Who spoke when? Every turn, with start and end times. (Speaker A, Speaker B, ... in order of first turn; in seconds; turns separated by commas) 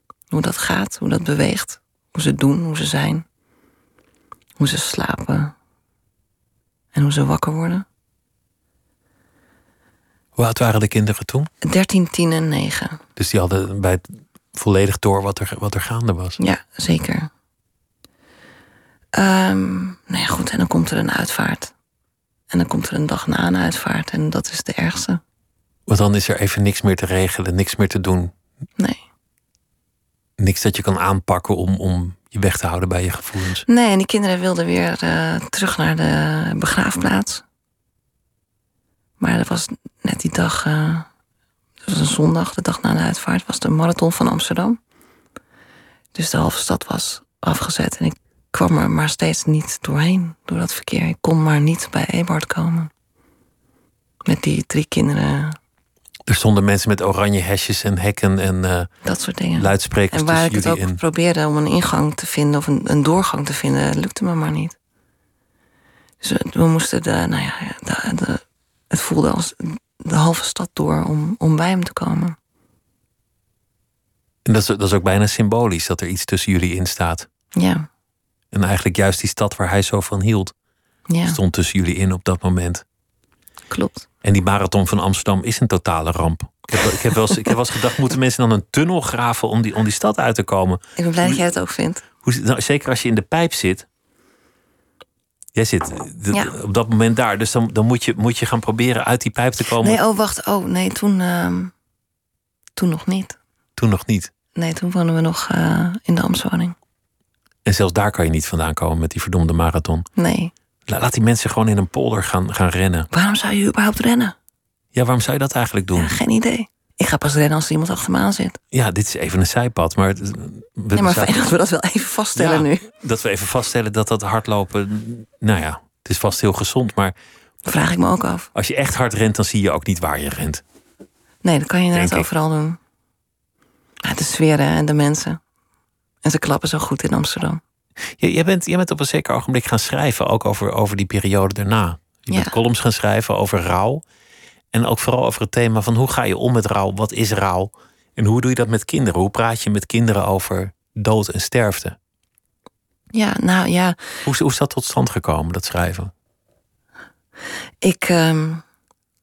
Speaker A: 0.3-3.2, Speaker A: 4.6-5.5, Speaker A: 6.9-7.8, Speaker B: 10.4-11.5, Speaker A: 11.6-13.0, Speaker B: 13.2-16.4, Speaker A: 16.4-17.3, Speaker A: 19.1-21.7, Speaker A: 22.5-25.2, Speaker B: 25.9-28.3, Speaker B: 30.4-33.6, Speaker A: 33.7-37.4, Speaker A: 39.2-41.1, Speaker A: 41.9-44.8, Speaker A: 46.1-52.9, Speaker A: 54.2-55.6, Speaker B: 56.3-58.9, Speaker A: 59.0-64.7, Speaker B: 59.5-61.0, Speaker A: 66.2-72.3, Speaker B: 74.4-77.3, Speaker A: 77.5-77.9, Speaker B: 78.5-80.5, Speaker A: 81.1-81.4, Speaker B: 81.2-82.8, Speaker A: 83.7-84.0, Speaker B: 84.2-91.4, Speaker A: 91.0-92.0, Speaker B: 92.2-93.8, Speaker B: 95.5-100.0, Speaker A: 99.8-101.7, Speaker A: 102.8-103.4, Speaker B: 103.8-104.3, Speaker A: 104.5-106.8, Speaker B: 107.6-110.1, Speaker A: 110.2-110.5, Speaker B: 110.8-113.1, Speaker A: 113.1-114.3, Speaker B: 114.9-116.1, Speaker A: 115.9-118.6, Speaker B: 118.7-121.3, Speaker A: 120.9-122.9, Speaker B: 122.3-127.1, Speaker A: 127.6-128.5, Speaker B: 128.5-130.6, Speaker A: 131.4-132.8, Speaker B: 131.9-132.3, Speaker A: 134.0-135.4, Speaker A: 136.2-137.6, Speaker B: 138.2-144.0, Speaker A: 142.3-142.6, Speaker B: 144.7-152.0, Speaker A: 153.1-154.0, Speaker B: 154.2-156.1, Speaker A: 157.8-158.6